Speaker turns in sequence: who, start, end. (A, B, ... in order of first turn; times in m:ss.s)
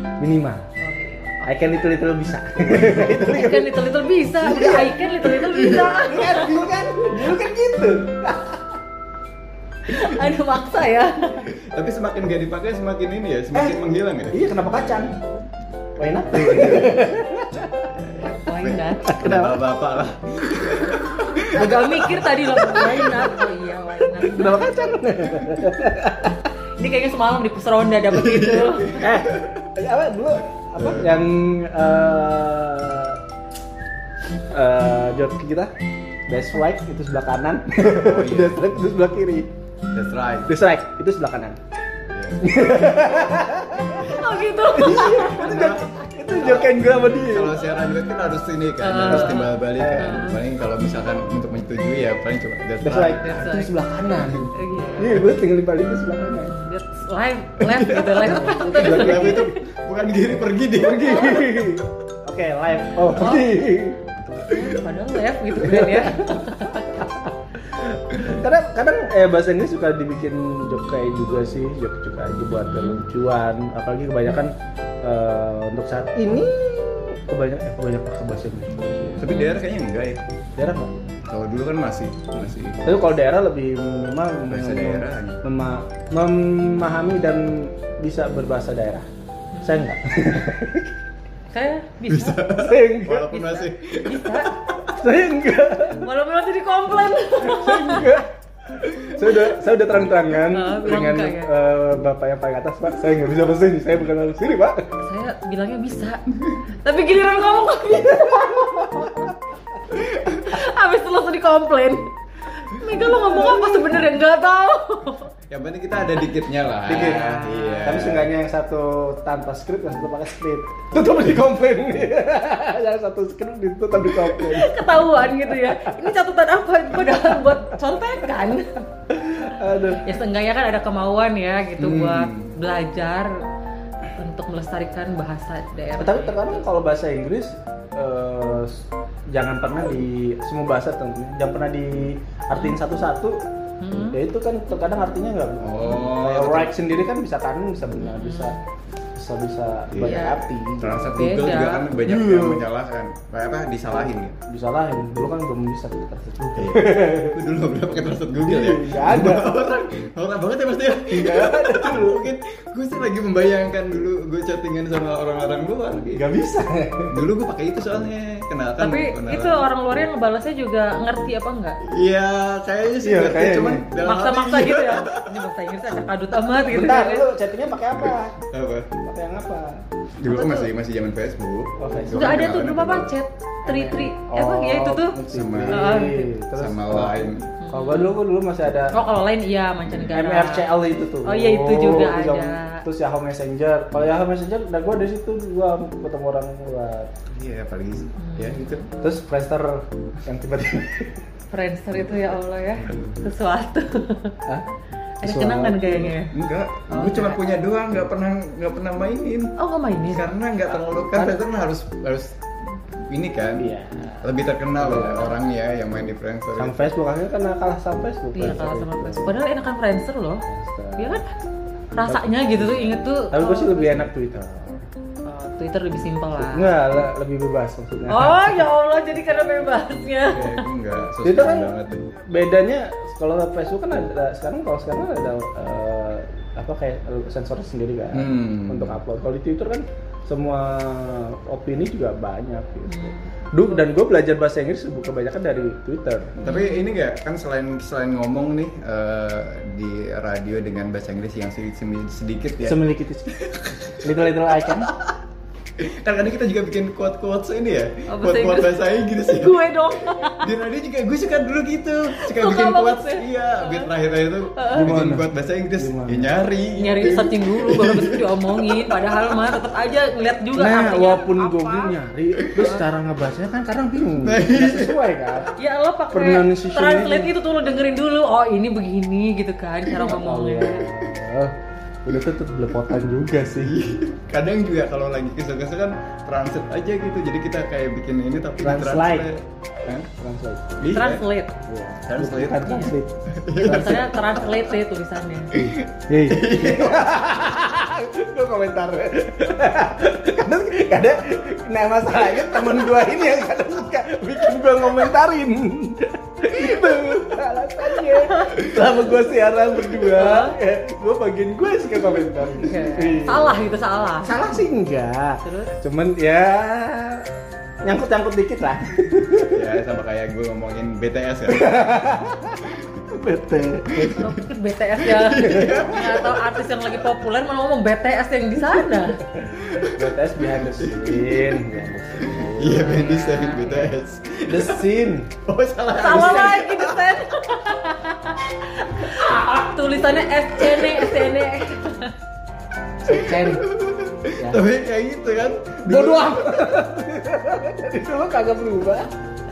0:00.2-0:00.6 A
0:00.8-0:01.5 B
0:01.5-0:03.8 A
0:03.1-0:06.6 B
0:04.4-0:05.0 A
0:05.2-0:06.2 C
0:05.5-0:08.8 A
0:09.9-0:11.5 B
0:11.4-0:14.4 C
0:13.5-0:15.1 A
0:16.0-0:17.9 A
0:16.2-0:17.2 C
0:17.9-0:23.3 C
0:18.2-0:19.2 B
0:19.0-0:19.6 A
0:21.4-0:24.7 B
0:24.3-0:26.4 A
0:26.8-0:29.0 B
0:28.1-0:29.5 C
0:29.0-0:33.2 A
0:30.8-0:31.2 C
0:34.5-0:35.7 A
0:36.3-0:39.5 A
0:37.8-0:38.6 C
0:39.9-0:40.5 C
0:40.5-0:41.6 A
0:42.1-0:43.3 C
0:42.4-0:44.1 A
0:43.9-0:53.4 C
0:44.1-0:45.6 B
0:44.7-0:47.6 A
0:48.8-0:50.4 B
0:49.2-0:50.3 A
0:52.8-0:56.5 A
0:53.2-0:53.8 B
0:54.5-0:55.2 B
0:56.5-0:59.6 B
0:57.6-1:01.7 C
0:58.2-0:59.6 A
1:00.8-1:04.1 A
1:03.0-1:03.5 B
1:04.2-1:06.9 B
1:04.5-1:04.8 C
1:05.6-1:19.3 A
1:12.5-1:13.0 B
1:19.2-1:20.2 C
1:19.3-1:19.6 B
1:20.6-1:20.9 A
1:21.3-1:22.9 C
1:22.8-1:29.1 A
1:24.5-1:25.4 C
1:29.5-1:30.5 B
1:29.6-1:30.9 A
1:31.5-1:32.5 B
1:32.1-1:34.9 C
1:32.6-1:33.3 A
1:33.2-1:34.6 B
1:34.9-1:36.1 A
1:36.0-1:38.1 B
1:37.4-1:44.9 A
1:40.5-1:41.5 B
1:45.0-1:46.3 B
1:46.8-1:49.1 B
1:47.9-1:49.4 A
1:49.9-1:55.3 B
1:53.0-1:53.8 A
1:55.5-1:58.3 C
1:56.9-2:04.8 A
1:56.9-1:58.0 B
2:04.3-2:08.7 B
2:09.1-2:10.0 A
2:10.0-2:13.4 B
2:11.8-2:12.6 C
2:14.1-2:16.6 B
2:16.0-2:23.4 A
2:23.8-2:24.2 B
2:24.1-2:28.6 A
2:25.6-2:26.8 C
2:28.1-2:28.5 B
2:29.2-2:31.0 A
2:29.9-2:34.4 C
2:30.0-2:30.4 B
2:31.1-2:32.0 B
2:32.0-2:32.6 A
2:34.5-2:37.4 A
2:36.6-2:46.3 C
2:38.4-2:39.6 A
2:41.1-2:42.3 A
2:46.2-2:47.2 A
2:47.1-2:49.6 C
2:48.8-2:51.8 B
2:51.9-2:55.3 C
2:53.0-2:53.9 A
2:54.0-2:57.3 B
2:56.7-2:58.4 A
2:58.0-2:58.9 C
2:59.0-2:59.8 A
3:00.2-3:03.1 C
3:00.3-3:00.7 B
3:01.8-3:02.3 A
3:02.1-3:06.3 B
3:03.7-3:09.0 A
3:05.3-3:06.0 C
3:06.6-3:07.5 C
3:07.6-3:08.2 B
3:08.9-3:10.7 B
3:10.1-3:17.1 A
3:11.2-3:12.8 B
3:17.3-3:18.9 C
3:18.2-3:18.8 B
3:19.0-3:21.2 A
3:21.5-3:24.4 B
3:22.8-3:23.2 C
3:25.2-3:26.3 B
3:25.2-3:26.1 A
3:26.3-3:33.7 C
3:26.9-3:27.4 B
3:29.6-3:30.3 B
3:30.7-3:31.4 A
3:33.6-3:35.3 A
3:34.2-3:36.9 C
3:36.6-3:39.4 A
3:38.3-3:40.4 B
3:40.5-3:41.2 A
3:41.0-3:41.3 B
3:42.0-3:44.1 B
3:42.1-3:44.8 A
3:45.2-3:46.9 B
3:46.4-3:48.6 A
3:48.1-3:50.6 B
3:50.3-3:52.1 C
3:51.2-4:06.3 A
3:58.1-3:59.0 C
4:02.9-4:03.9 B
4:06.4-4:12.9 C
4:06.4-4:06.9 B
4:12.6-4:14.9 A
4:14.7-4:15.1 C
4:15.8-4:29.7 C
4:18.1-4:20.5 B
4:22.2-4:23.9 B
4:24.6-4:24.9 B
4:24.7-4:26.3 A
4:26.8-4:32.0 B
4:30.6-4:35.5 A
4:32.6-4:32.8 B
4:34.2-4:35.0 C
4:35.6-4:40.8 B
4:36.1-4:37.3 A
4:40.0-4:41.5 A
4:42.0-4:43.8 A
4:43.6-4:50.1 C
4:48.6-4:49.3 A
4:50.2-4:50.8 A
4:50.8-4:51.3 C
4:50.9-4:51.6 B
4:51.7-4:54.5 A
4:52.0-4:52.8 C
4:52.6-4:52.9 B
4:53.4-4:54.5 C
4:53.6-4:55.6 B
4:55.5-4:57.1 C
4:56.1-5:13.6 A
5:06.8-5:07.2 C
5:08.2-5:08.6 B
5:10.0-5:10.6 B
5:12.6-5:14.6 B
5:14.2-5:17.2 A
5:15.4-5:15.7 B
5:17.8-5:19.7 A
5:19.5-5:22.1 C
5:21.5-5:24.3 A
5:24.0-5:24.4 C
5:24.2-5:29.2 B
5:25.0-5:27.0 C
5:25.4-5:25.8 A
5:29.3-5:32.9 A
5:29.5-5:30.0 C
5:30.8-5:31.6 C
5:32.2-5:34.9 C
5:32.7-5:33.9 B
5:34.5-5:35.3 A
5:35.4-5:37.0 C
5:35.9-5:42.1 B
5:43.0-5:43.6 A
5:43.1-5:46.7 C
5:45.8-5:49.1 A